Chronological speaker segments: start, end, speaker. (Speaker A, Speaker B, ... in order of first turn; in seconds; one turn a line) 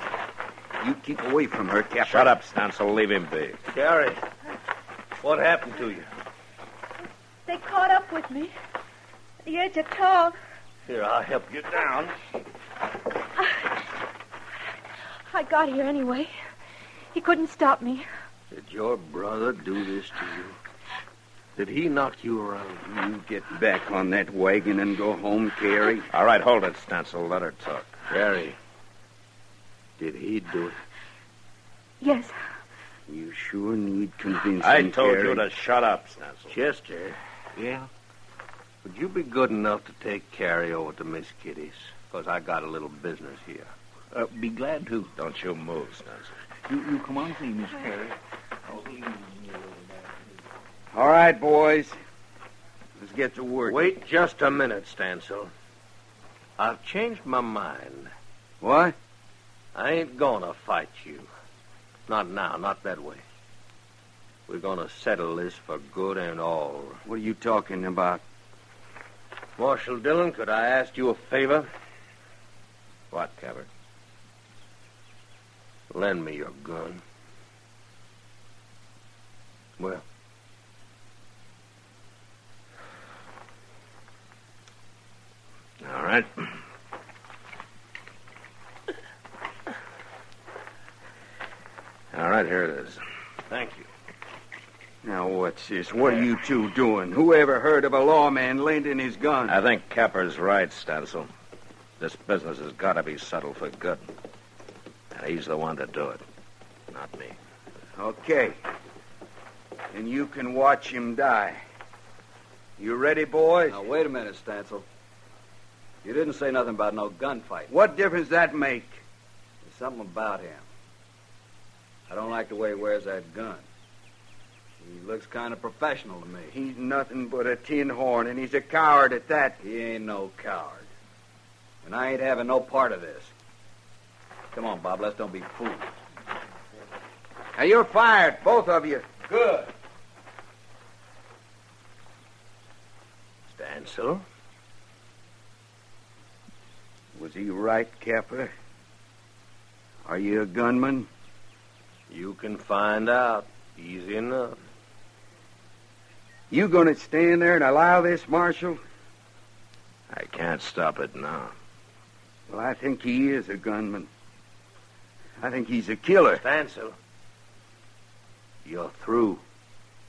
Speaker A: 0.8-2.3
Speaker B: 2.0-3.6
Speaker C: 3.7-4.2
Speaker C: 5.2-6.1
Speaker D: 7.4-8.5
Speaker D: 9.4-10.3
Speaker C: 10.9-12.1
Speaker D: 15.3-16.3
Speaker D: 17.1-18.1
Speaker C: 18.5-20.6
Speaker C: 21.6-22.9
Speaker A: 22.9-26.1
Speaker B: 26.1-27.9
Speaker C: 28.1-28.6
Speaker C: 30.0-30.8
Speaker D: 32.0-32.3
Speaker A: 33.1-35.5
Speaker B: 34.6-36.5
Speaker C: 36.5-37.2
Speaker E: 37.6-37.9
Speaker C: 38.8-43.7
Speaker E: 44.1-45.1
Speaker B: 45.1-46.3
Speaker E: 46.7-49.8
Speaker A: 50.9-52.0
Speaker A: 53.0-53.9
Speaker C: 53.6-55.5
Speaker C: 56.6-58.1
Speaker A: 58.6-59.0
Speaker C: 59.7-61.3
Speaker C: 62.1-63.2
Speaker C: 64.5-67.0
Speaker A: 67.0-68.2
Speaker C: 69.6-71.7
Speaker B: 73.1-73.7
Speaker C: 75.9-77.0
Speaker C: 79.8-80.0
Speaker B: 85.8-86.5
Speaker B: 92.1-93.0
Speaker C: 93.5-93.9
Speaker A: 95.0-99.6
Speaker B: 99.5-101.3
Speaker B: 102.0-104.0
Speaker B: 105.1-106.2
Speaker B: 106.9-107.4
Speaker A: 108.0-108.5
Speaker A: 109.9-111.6
Speaker A: 112.8-113.8
Speaker F: 113.6-114.8
Speaker F: 116.0-117.7
Speaker A: 117.7-119.0
Speaker F: 119.6-120.7
Speaker F: 122.1-123.6
Speaker F: 124.8-126.5
Speaker A: 126.5-129.6
Speaker F: 129.6-130.9
Speaker F: 131.8-133.3
Speaker F: 134.5-135.9
Speaker A: 137.6-139.6
Speaker F: 139.2-139.7
Speaker C: 143.5-144.2
Speaker A: 147.1-148.5
Speaker A: 150.0-151.1
Speaker C: 152.1-154.6
Speaker A: 156.5-158.8
Speaker B: 160.1-161.5
Speaker A: 162.5-164.1
Speaker A: 165.4-166.4
Speaker C: 166.3-166.9
Speaker C: 168.6-169.4